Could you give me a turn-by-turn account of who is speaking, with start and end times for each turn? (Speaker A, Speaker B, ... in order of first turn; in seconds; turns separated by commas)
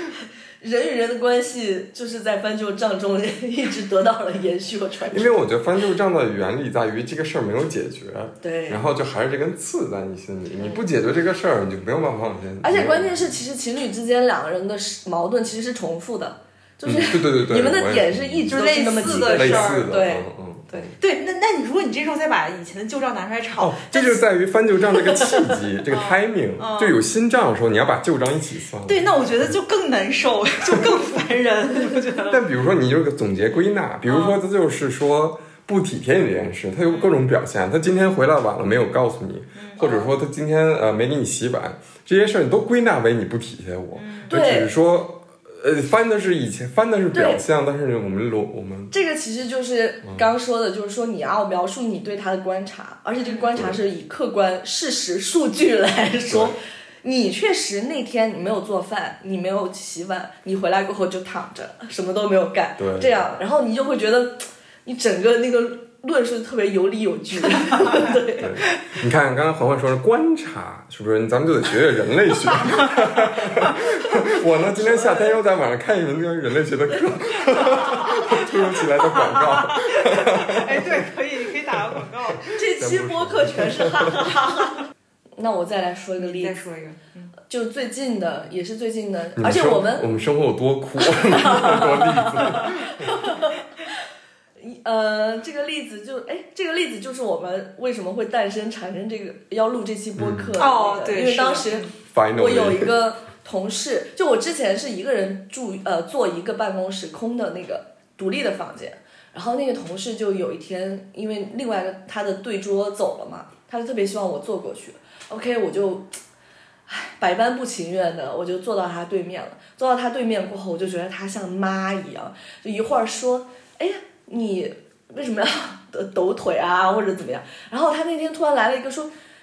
Speaker A: 0.6-5.3, Speaker B: 5.1-13.3, Speaker A: 8.4-8.8, Speaker A: 12.6-20.9, Speaker B: 16.8-20.9, Speaker C: 18.5-20.0, Speaker C: 21.0-24.3, Speaker B: 23.6-29.1, Speaker C: 24.9-26.9, Speaker C: 28.9-32.4, Speaker B: 32.3-48.9, Speaker C: 34.1-34.4, Speaker C: 36.9-37.2, Speaker C: 39.6-39.8, Speaker A: 39.8-40.1, Speaker C: 43.9-44.4, Speaker A: 44.3-44.7, Speaker A: 47.1-47.4, Speaker A: 48.9-68.6, Speaker B: 50.0-50.3, Speaker C: 53.2-53.5, Speaker B: 56.3-56.5, Speaker B: 62.8-63.2, Speaker B: 68.4-81.1, Speaker A: 74.8-75.3, Speaker C: 77.7-82.6, Speaker B: 81.7-84.3, Speaker A: 82.5-84.8, Speaker A: 85.4-86.6, Speaker C: 86.2-87.3, Speaker A: 87.5-90.1, Speaker B: 89.4-93.2, Speaker A: 91.1-93.6, Speaker A: 94.6-116.2, Speaker B: 100.2-100.6, Speaker C: 100.6-101.9, Speaker B: 102.0-102.9, Speaker A: 116.9-129.1